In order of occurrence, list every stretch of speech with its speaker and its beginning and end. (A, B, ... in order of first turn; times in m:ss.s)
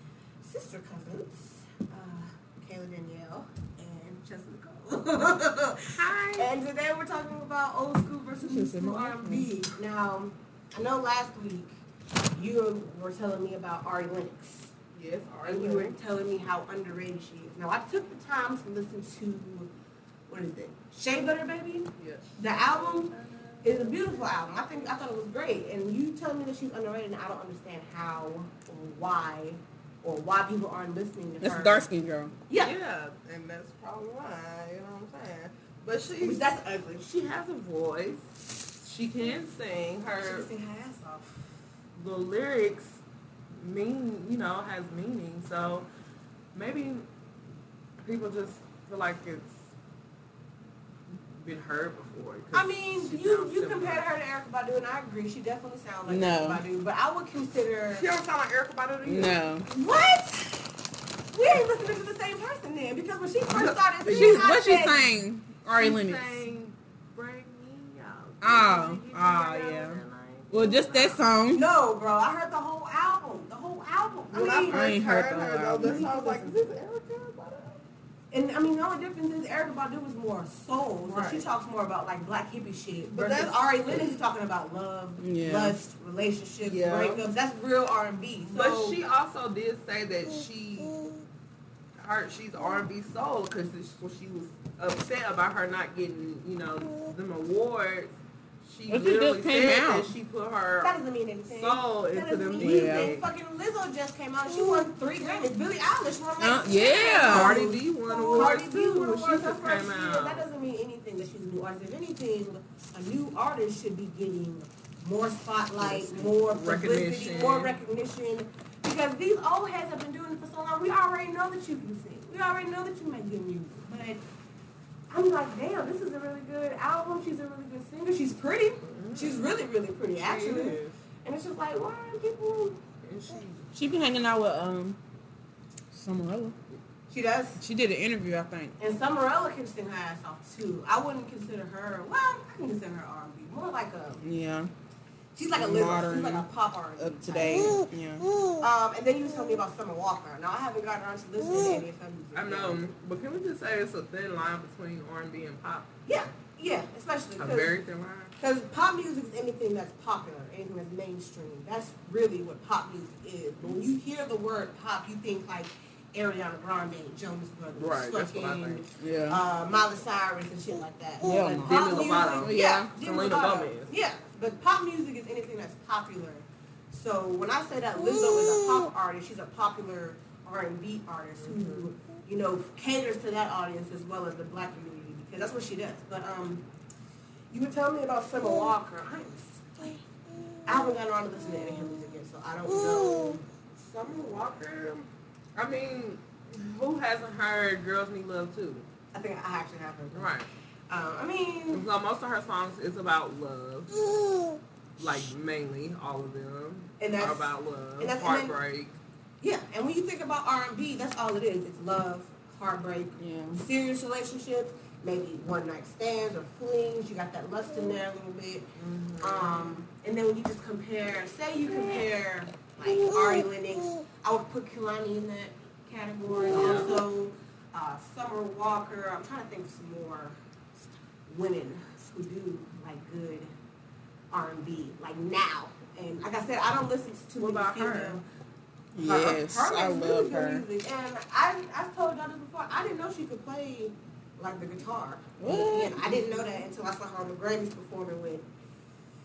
0:00.4-0:11.7 A
0:06.0-0:06.5 B
0:08.4-0:09.5 C
0:12.3-0:14.7 A
0:14.9-0:15.9 B
0:15.4-0:19.7 A
0:20.3-0:23.1 A
0:22.0-0:24.2 B
0:23.6-0:31.9 A
0:31.4-0:32.3 C
0:32.6-0:36.4 B
0:36.2-0:37.1 A
0:37.0-0:38.2 B
0:38.8-0:40.5 B
0:40.2-0:41.4 A
0:42.0-0:43.0 B
0:43.6-0:45.9 B
0:46.5-0:47.0 B
0:48.0-0:49.6 B
0:51.4-0:54.0 B
0:52.5-0:58.0 A
0:56.1-0:56.6 C
0:57.9-0:59.4 B
0:59.0-0:59.6 C
0:59.6-1:00.7 A
1:01.3-1:05.1 A
1:03.5-1:04.5 B
1:04.0-1:06.4 C
1:05.8-1:11.2 B
1:08.4-1:11.6 C
1:11.5-1:14.9 A
1:14.3-1:17.8 B
1:14.7-1:16.1 C
1:15.8-1:16.6 A
1:18.3-1:29.0 A
1:21.0-1:21.4 B
1:23.1-1:24.1 B
1:25.2-1:25.8 C
1:26.6-1:27.2 B
1:28.5-1:31.0 B
1:32.0-1:43.2 B
1:38.9-1:40.1 C
1:40.8-2:04.2 A
1:42.6-1:43.1 C
1:46.4-1:47.6 C
1:47.2-1:50.4 B
1:55.8-1:57.7 B
2:05.1-2:12.8 A
2:08.8-2:09.5 B
2:10.2-2:11.0 B
2:13.0-2:13.6 B
2:13.7-2:15.0 C
2:15.9-2:16.6 C
2:17.1-2:17.6 A
2:17.6-2:18.7 C
2:18.8-2:24.2 A
2:24.2-2:24.7 C
2:25.3-2:27.8 A
2:25.6-2:28.2 C
2:28.6-2:32.9 A
2:32.3-2:35.9 B
2:36.0-2:37.7 A
2:37.4-2:38.3 B
2:38.4-3:06.6 A
2:47.8-2:48.8 B
2:49.0-2:49.4 C
2:51.2-2:52.9 C
2:51.5-2:53.9 B
3:01.4-3:01.8 B
3:07.5-3:10.0 A
3:10.6-3:14.5 A
3:14.0-3:18.8 B
3:19.1-3:20.3 A
3:20.1-3:20.5 B
3:20.9-3:21.8 A
3:21.7-3:24.0 B
3:25.0-3:29.0 B
3:27.0-3:28.6 A
3:29.4-3:38.7 A
3:33.2-3:33.6 C
3:38.8-3:39.8 B
3:39.2-3:50.3 A
3:46.5-3:47.0 B
3:51.3-3:53.5 A
3:54.3-3:58.2 A
3:57.4-3:58.2 B
3:58.9-4:00.6 C
3:59.0-4:08.4 A
4:05.4-4:06.2 C